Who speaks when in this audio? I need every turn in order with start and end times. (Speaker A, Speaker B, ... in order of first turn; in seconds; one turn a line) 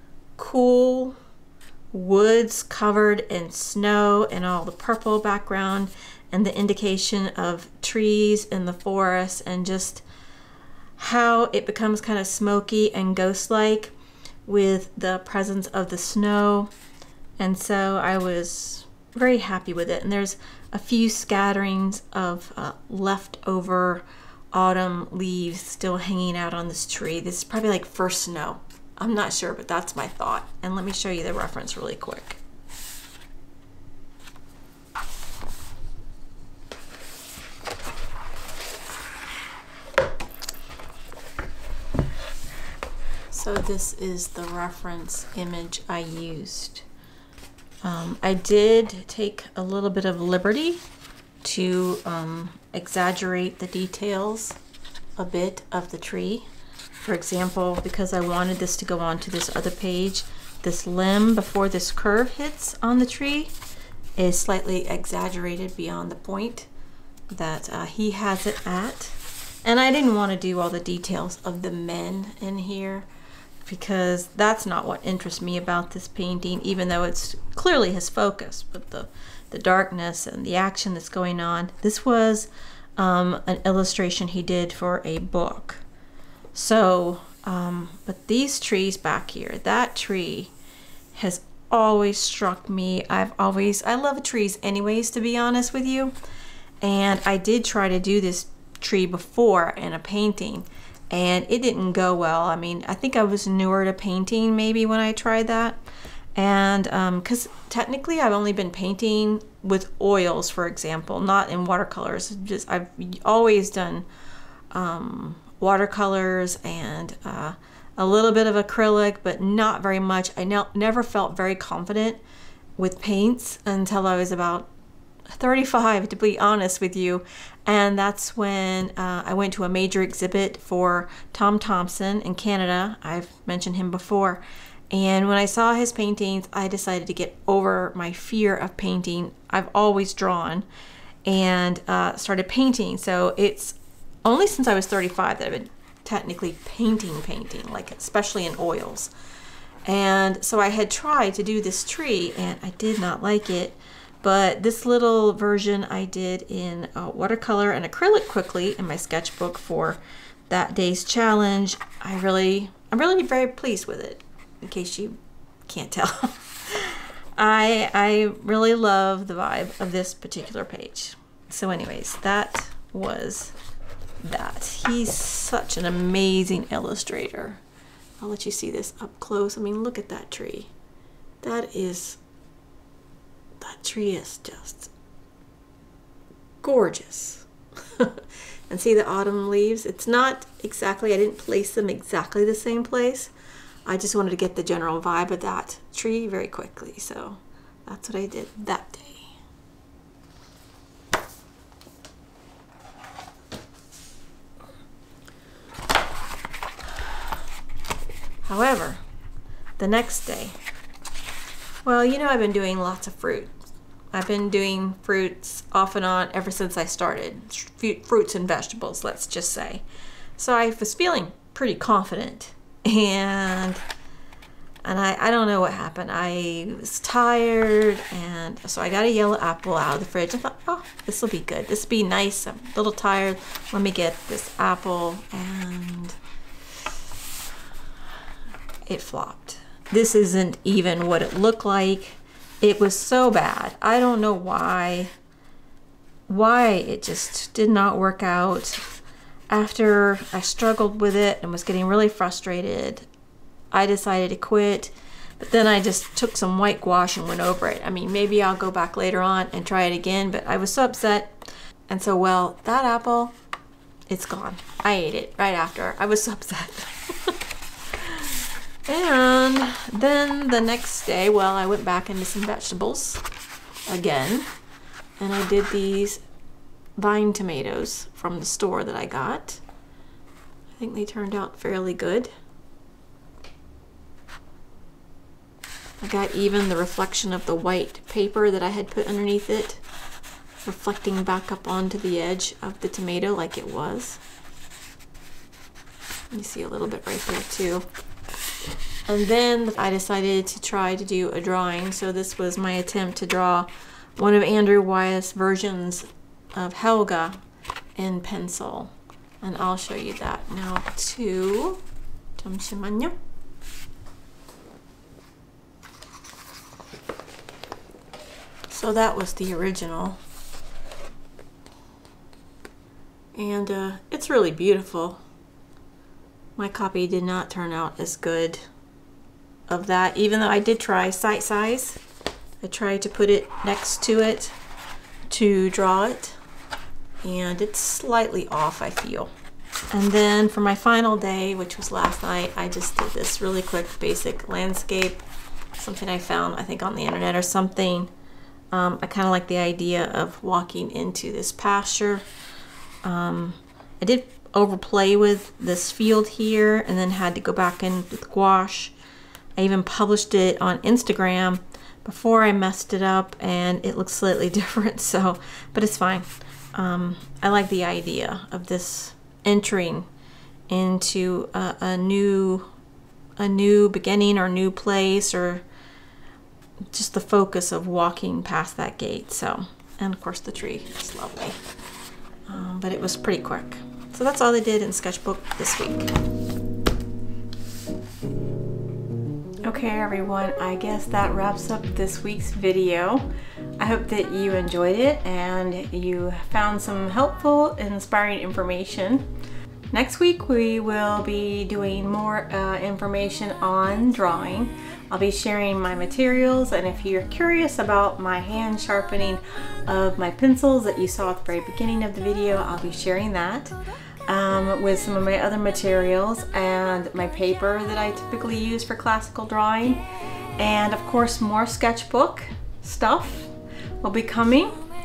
Speaker A: 0.4-1.2
Speaker A: 1.9-10.0
Speaker A: 11.0-13.9
Speaker A: 14.4-16.7
Speaker A: 17.4-32.4
Speaker A: 43.3-46.8
Speaker A: 47.8-50.8
Speaker A: 51.4-54.6
Speaker A: 55.2-56.5
Speaker A: 57.0-63.5
Speaker A: 64.2-66.7
Speaker A: 67.3-73.1
Speaker A: 73.6-85.8
Speaker A: 86.5-90.5
Speaker A: 91.1-96.1
Speaker A: 96.8-105.8
Speaker A: 106.3-114.0
Speaker A: 114.7-122.2
Speaker A: 122.8-124.7
Speaker A: 125.3-140.7
Speaker A: 141.2-149.1
Speaker A: 149.8-165.2
Speaker A: 165.7-173.5
Speaker A: 174.2-177.6
Speaker A: 178.2-180.7
Speaker A: 181.4-182.2
Speaker A: 183.6-184.9
Speaker A: 186.6-193.3
Speaker A: 193.8-199.3
Speaker A: 208.4-209.0
Speaker A: 209.8-210.6
Speaker A: 211.8-213.5
Speaker A: 214.1-219.8
Speaker A: 220.4-223.8
Speaker A: 224.8-236.2
Speaker A: 238.8-245.1
Speaker A: 246.3-248.8
Speaker A: 249.5-253.1
Speaker A: 253.7-263.4
Speaker A: 264.1-267.4
Speaker A: 267.9-273.2
Speaker A: 273.9-274.5
Speaker A: 275.2-276.2
Speaker A: 277.0-279.6
Speaker A: 280.8-282.3
Speaker A: 286.0-289.8
Speaker A: 290.6-294.2
Speaker A: 296.3-297.9
Speaker A: 299.1-307.4
Speaker A: 307.9-311.8
Speaker A: 312.4-313.1
Speaker A: 318.7-320.2
Speaker A: 323.3-325.2
Speaker A: 326.6-328.6
Speaker A: 329.7-332.0
Speaker A: 332.6-334.6
Speaker A: 335.3-336.4
Speaker A: 337.2-339.3
Speaker A: 339.9-345.2
Speaker A: 345.8-348.1
Speaker A: 348.7-352.2
Speaker A: 353.0-358.9
Speaker A: 359.6-370.1
Speaker A: 370.7-372.7
Speaker A: 373.4-375.6
Speaker A: 376.9-381.6
Speaker A: 382.5-386.1
Speaker A: 389.6-399.2
Speaker A: 399.9-413.7
Speaker A: 414.2-420.0
Speaker A: 420.6-424.8